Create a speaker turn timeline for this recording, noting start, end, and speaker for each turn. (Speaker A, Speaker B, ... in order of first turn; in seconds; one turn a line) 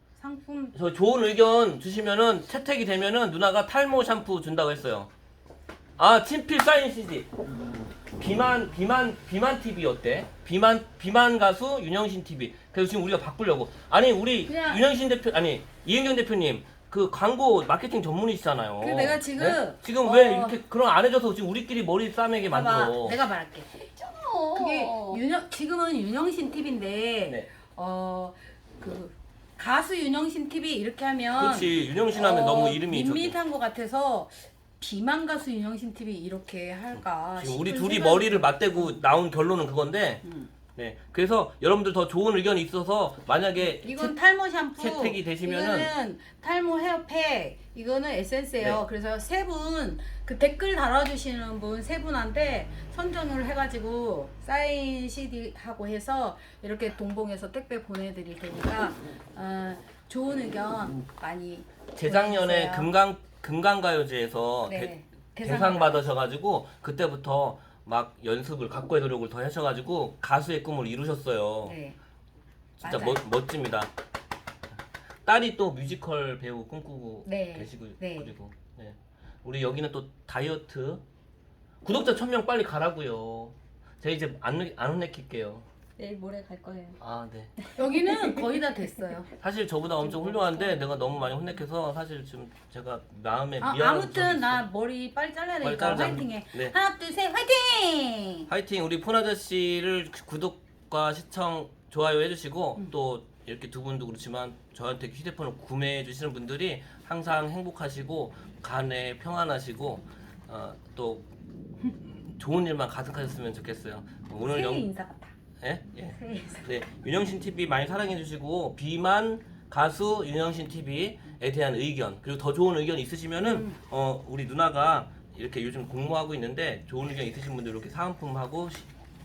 Speaker A: 0.2-0.7
Speaker B: 0.7-5.1
Speaker B: 6.0-7.3
Speaker B: 8.1-23.2
Speaker A: 14.4-14.8
Speaker A: 18.8-20.6
Speaker A: 22.4-23.9
Speaker C: 23.9-25.2
Speaker A: 24.5-39.0
Speaker B: 31.3-33.4
Speaker B: 36.9-40.2
Speaker A: 40.2-40.5
Speaker B: 40.8-44.1
Speaker A: 43.6-62.9
Speaker B: 44.8-45.9
Speaker B: 61.9-71.8
Speaker A: 64.7-66.1
Speaker A: 71.6-72.0
Speaker B: 72.8-73.9
Speaker A: 72.8-73.2
Speaker B: 75.2-81.0
Speaker A: 77.2-78.3
Speaker B: 81.8-85.6
Speaker C: 86.0-87.0
Speaker B: 87.0-87.5
Speaker C: 87.6-88.7
Speaker A: 87.7-89.3
Speaker B: 89.4-94.7
Speaker C: 90.0-91.1
Speaker A: 93.6-98.5
Speaker B: 95.6-96.7
Speaker B: 98.5-111.2
Speaker B: 112.0-114.9
Speaker A: 114.4-115.3
Speaker B: 115.6-128.9
Speaker A: 116.1-116.7
Speaker A: 123.4-123.8